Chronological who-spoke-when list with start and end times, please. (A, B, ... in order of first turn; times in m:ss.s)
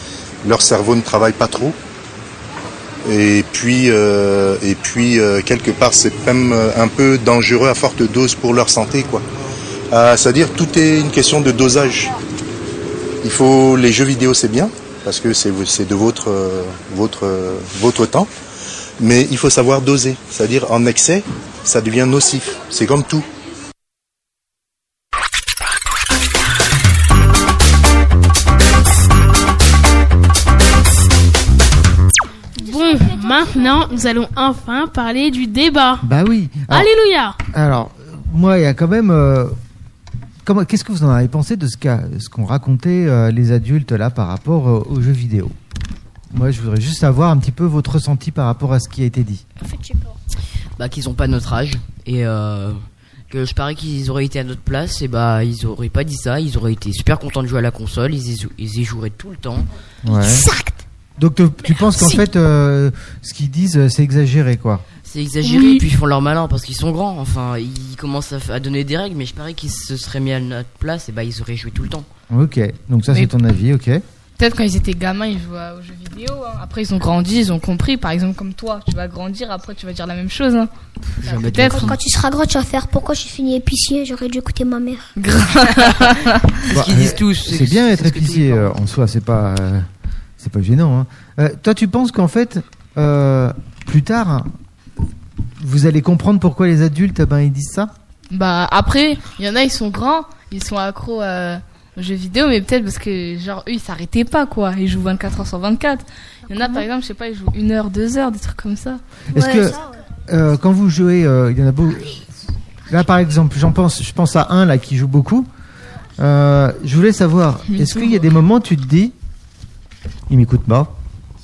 0:00.4-0:01.8 A
0:03.0-0:09.2 A
0:09.9-0:12.1 A
0:13.2-0:18.3 A
0:19.0-0:23.2 A
0:32.6-0:36.1 B
0:32.6-0:33.9 C
0:36.0-0:36.9 D
0:36.7-0:37.4 B
0:37.5-0:39.6 D
0:40.4-0:45.6 D
0:46.3-0:49.4 D
0:49.6-0:50.1 C
0:50.8-0:52.8 E
0:53.3-0:59.7 E
1:00.0-1:00.5 D
1:00.0-1:00.8 C
1:01.2-1:04.8 D
1:05.0-1:12.1 E
1:12.3-1:14.0 D
1:14.4-1:20.7 F
1:21.2-1:22.0 D
1:21.2-1:21.9 F
1:21.5-1:25.1 C
1:25.2-1:26.4 F
1:26.6-1:28.7 E
1:26.7-1:29.9 D
1:30.4-1:34.5 D
1:35.6-1:37.9 D
1:38.3-1:49.0 F
1:46.6-1:46.8 C
1:49.3-1:52.2 D
1:49.3-1:49.9 C
1:52.9-1:55.5 D
1:56.2-1:59.1 D
1:57.7-1:58.2 F
2:00.3-2:00.9 D